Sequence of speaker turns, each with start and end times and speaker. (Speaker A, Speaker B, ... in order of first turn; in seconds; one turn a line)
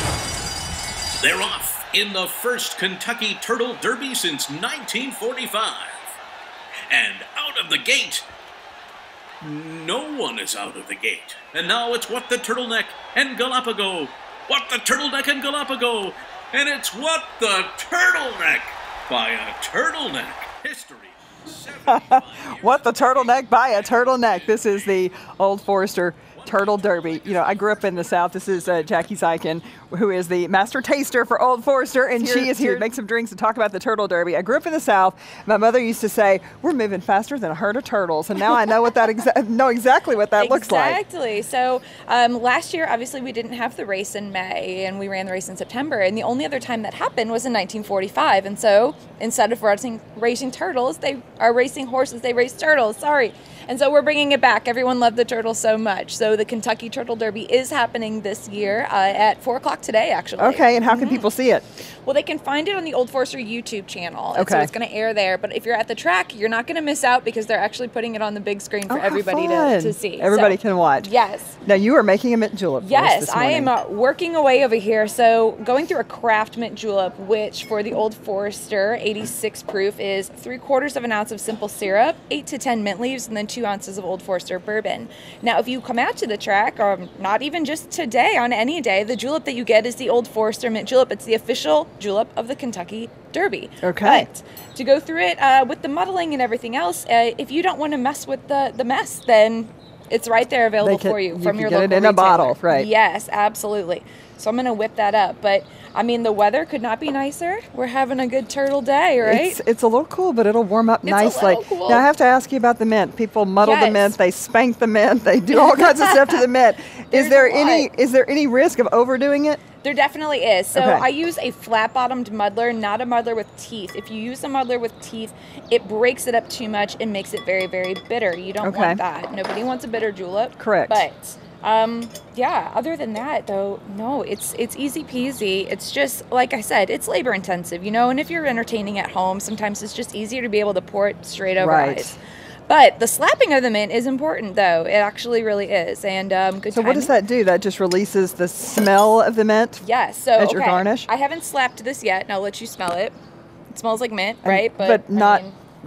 Speaker A: 1.2-6.1
Speaker A: 6.9-8.2
Speaker A: 9.4-24.9
Speaker B: 21.9-41.0
Speaker A: 26.3-29.1
Speaker C: 40.4-61.3
Speaker B: 60.4-61.6
Speaker C: 62.0-71.6
Speaker B: 64.3-64.7
Speaker B: 68.9-71.1
Speaker B: 71.6-73.7
Speaker C: 72.8-109.6
Speaker B: 93.8-94.3
Speaker B: 100.8-102.9
Speaker B: 109.2-119.6
Speaker C: 111.0-112.0
Speaker C: 113.6-114.2
Speaker C: 115.7-116.4
Speaker C: 117.1-117.9
Speaker C: 119.8-142.2
Speaker B: 120.8-121.1
Speaker B: 128.6-129.0
Speaker B: 130.6-131.0
Speaker B: 141.6-142.2
Speaker C: 142.7-147.2
Speaker B: 146.7-149.8
Speaker C: 149.8-153.2
Speaker B: 150.4-151.1
Speaker C: 153.7-155.6
Speaker B: 154.4-155.5